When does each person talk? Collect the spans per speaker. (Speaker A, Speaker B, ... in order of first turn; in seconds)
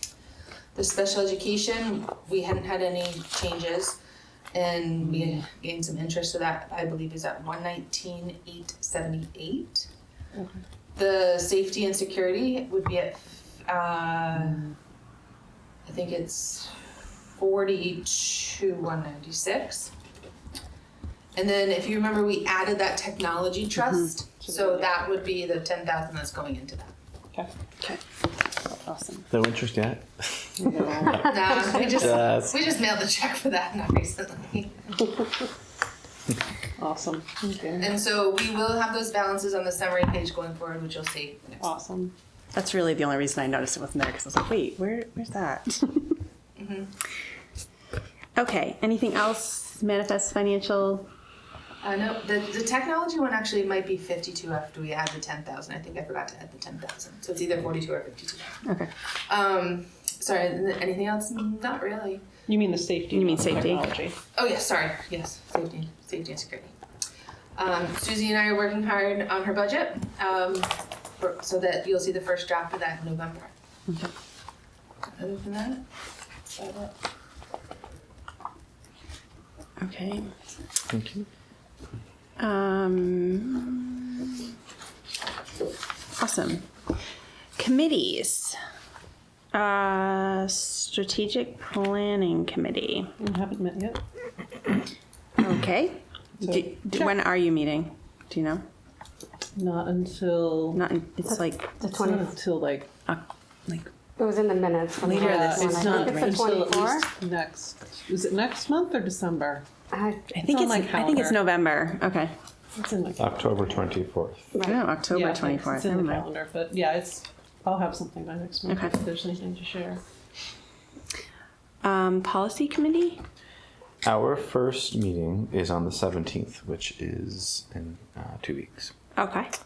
Speaker A: 0.7-4.0, 4.5-9.9, 10.9-14.6, 15.8-19.9, 21.3-26.9, 31.1-35.1, 37.8-41.7, 46.6-46.9, 51.8-58.6, 59.1-62.3, 64.3-66.7, 67.5-73.5, 75.1-75.8, 76.5-76.9
Speaker B: 5.0-5.5, 10.3-10.6, 14.3-14.7, 24.4-25.0, 30.6-31.3, 36.8-37.9, 41.6-42.1, 62.5-64.2, 93.2-94.0, 96.4-97.2, 99.5-100.8, 101.8-102.9, 105.0-109.8, 110.3-111.4, 112.7-113.7, 115.1-120.0
Speaker C: 28.8-29.2, 42.5-46.1, 48.4-51.1, 63.1-63.9, 79.8-80.3, 82.4-84.5, 86.2-86.7, 87.6-88.6, 89.5-93.1, 95.4-98.6, 100.7-101.8, 103.1-103.9, 105.0-106.3, 110.3-112.3, 114.6-116.2, 118.7-118.9, 121.8-123.2, 129.2-129.5
Speaker D: 29.3-32.5, 80.9-81.3, 113.2-114.5, 124.0-128.9
Speaker E: 101.2-102.3, 104.2-107.0, 109.9-110.2, 114.5-114.8